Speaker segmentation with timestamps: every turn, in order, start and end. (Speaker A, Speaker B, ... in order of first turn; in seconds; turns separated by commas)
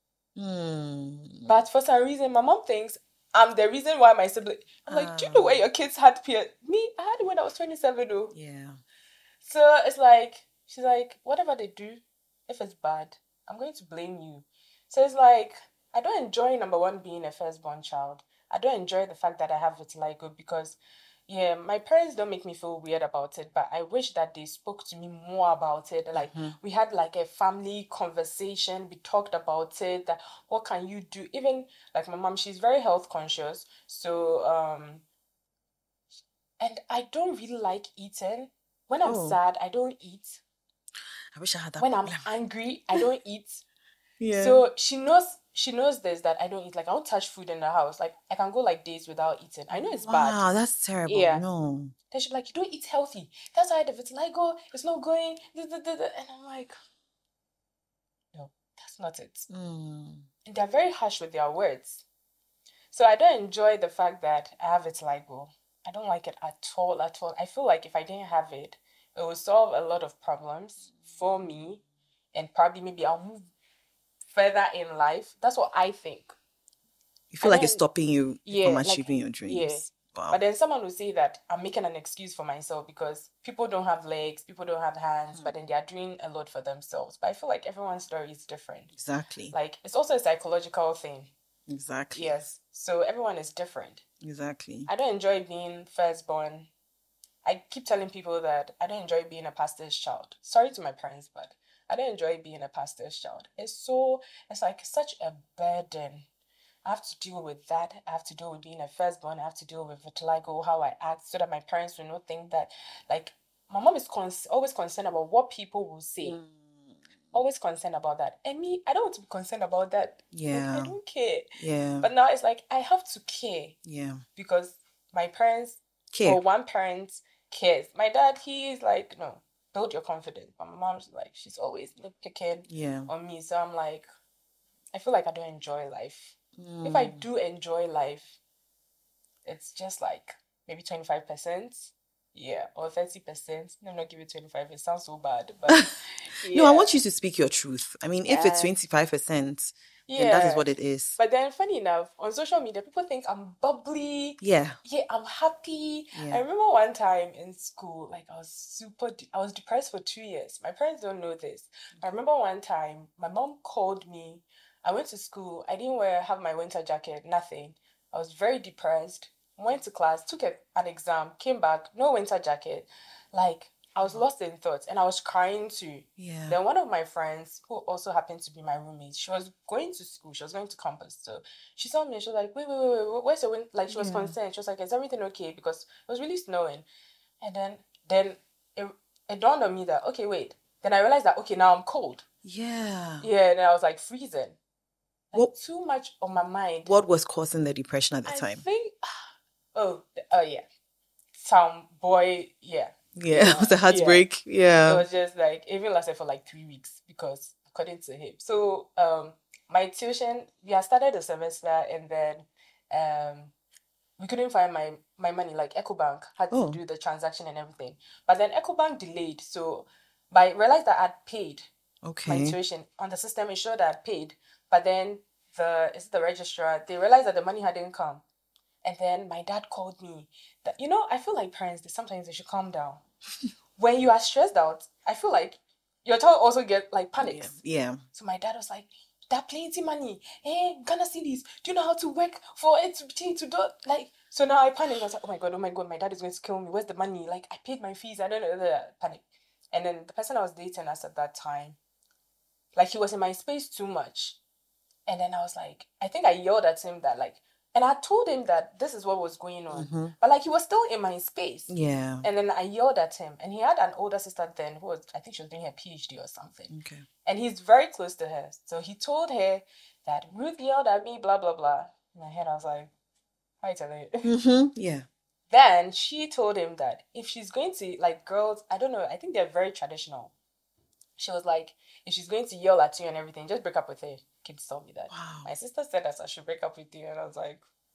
Speaker A: 0.3-1.6, Speaker B: 1.5-8.3, Speaker A: 4.9-5.6, Speaker A: 8.3-8.8, Speaker B: 9.4-35.0, Speaker A: 26.1-26.6, Speaker B: 36.6-40.4, Speaker A: 39.0-39.4, Speaker A: 41.3-42.3, Speaker B: 41.8-43.6, Speaker A: 44.2-44.6, Speaker B: 44.3-50.4, Speaker A: 50.0-51.9, Speaker B: 51.0-51.4, Speaker B: 52.1-56.8, Speaker B: 58.3-59.5, Speaker A: 59.5-60.3, Speaker B: 60.5-62.0, Speaker B: 62.9-71.8, Speaker B: 72.3-73.5, Speaker B: 74.3-76.3, Speaker A: 77.3-80.4, Speaker B: 77.4-77.8, Speaker B: 78.4-88.9, Speaker A: 88.9-89.5, Speaker B: 89.5-91.3, Speaker A: 91.7-92.3, Speaker B: 92.1-94.0, Speaker A: 94.2-94.9, Speaker B: 94.9-96.7, Speaker B: 97.4-106.2, Speaker B: 106.8-116.4, Speaker A: 116.2-117.3, Speaker B: 117.3-123.8, Speaker A: 120.3-120.9, Speaker A: 121.6-122.1, Speaker A: 123.8-124.2, Speaker B: 124.3-134.1, Speaker A: 126.1-126.4, Speaker A: 132.7-133.1, Speaker B: 134.9-138.4, Speaker A: 136.6-137.2, Speaker B: 139.4-146.9, Speaker A: 146.5-151.2, Speaker B: 148.3-148.7, Speaker B: 150.1-186.8, Speaker A: 154.4-154.8, Speaker A: 156.1-156.4, Speaker A: 176.2-176.6, Speaker A: 183.9-184.3, Speaker B: 187.4-192.2, Speaker A: 192.4-193.3, Speaker B: 193.2-194.6, Speaker B: 195.3-196.9, Speaker A: 196.8-198.6, Speaker B: 198.2-200.7, Speaker B: 201.3-204.2, Speaker A: 203.2-205.0, Speaker B: 204.8-213.5, Speaker B: 214.2-221.7, Speaker A: 216.5-216.8, Speaker A: 222.0-222.6, Speaker B: 222.2-228.2, Speaker B: 228.8-233.0, Speaker B: 233.8-237.6, Speaker A: 237.2-238.0, Speaker B: 238.1-251.8, Speaker B: 252.7-254.4, Speaker B: 255.1-261.7, Speaker A: 259.7-260.1, Speaker A: 261.7-262.3, Speaker B: 262.2-266.7, Speaker A: 266.7-267.1, Speaker B: 267.2-272.9, Speaker B: 273.6-274.3, Speaker A: 274.2-275.1, Speaker B: 275.5-280.3, Speaker B: 281.2-287.6, Speaker A: 285.1-285.5